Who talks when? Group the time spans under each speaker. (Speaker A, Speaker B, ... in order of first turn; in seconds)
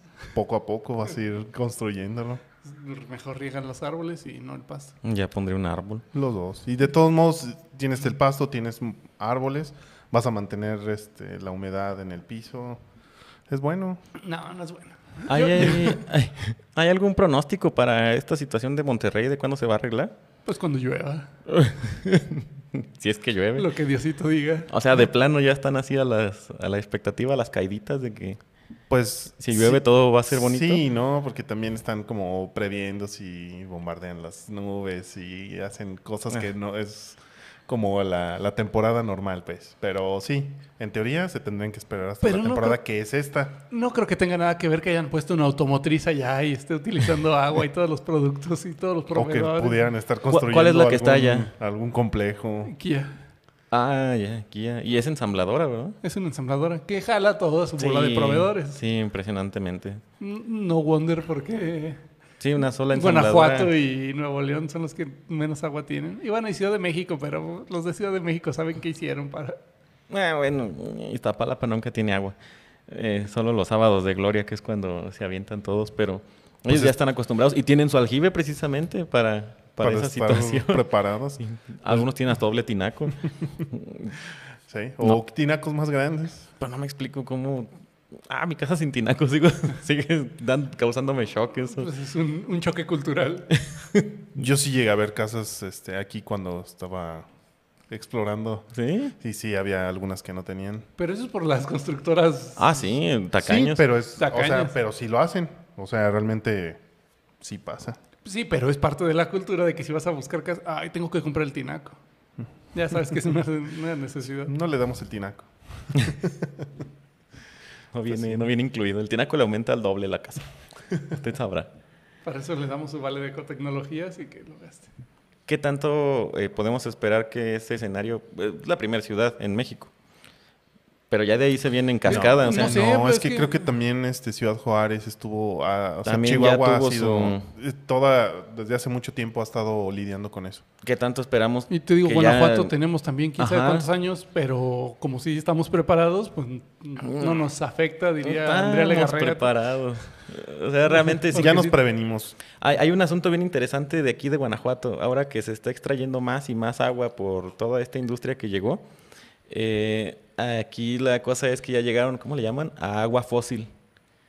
Speaker A: 0.3-2.4, 6.1-12.8, 13.5-14.0, 28.9-43.6, 49.1-52.8, 76.7-77.0, 79.8-82.1, 84.7-86.5, 94.3-97.3, 97.9-100.9, 103.4-106.8, 107.4-108.0, 114.5-116.7, 118.1-118.5, 132.1-140.6, 151.3-152.4
Speaker B: 2.6-5.0, 14.2-16.0, 20.5-21.3, 23.6-24.7, 42.2-42.8, 43.7-49.8, 52.7-53.2, 56.0-58.8, 60.2-62.0, 62.9-69.6, 91.8-93.5, 101.0-102.7, 104.2-104.7, 108.2-112.0, 112.7-114.5, 122.2-124.9, 132.1-133.7, 141.7-149.5
Speaker C: 5.0-6.0, 15.3-20.1, 21.5-23.7, 24.7-28.4, 29.4-30.8, 50.3-51.5, 53.7-56.0, 57.8-60.0, 62.4-63.7, 70.1-72.4, 72.9-80.8, 81.4-84.2, 86.6-87.7, 88.3-91.9, 93.8-94.2, 98.7-99.1, 102.6-103.8, 117.9-120.5, 121.0-121.7, 125.5-129.9, 131.1-132.8, 136.0-137.5, 140.8-142.7, 143.4-143.9, 147.0-147.4, 148.2-151.8, 152.5-158.8, 159.5-163.7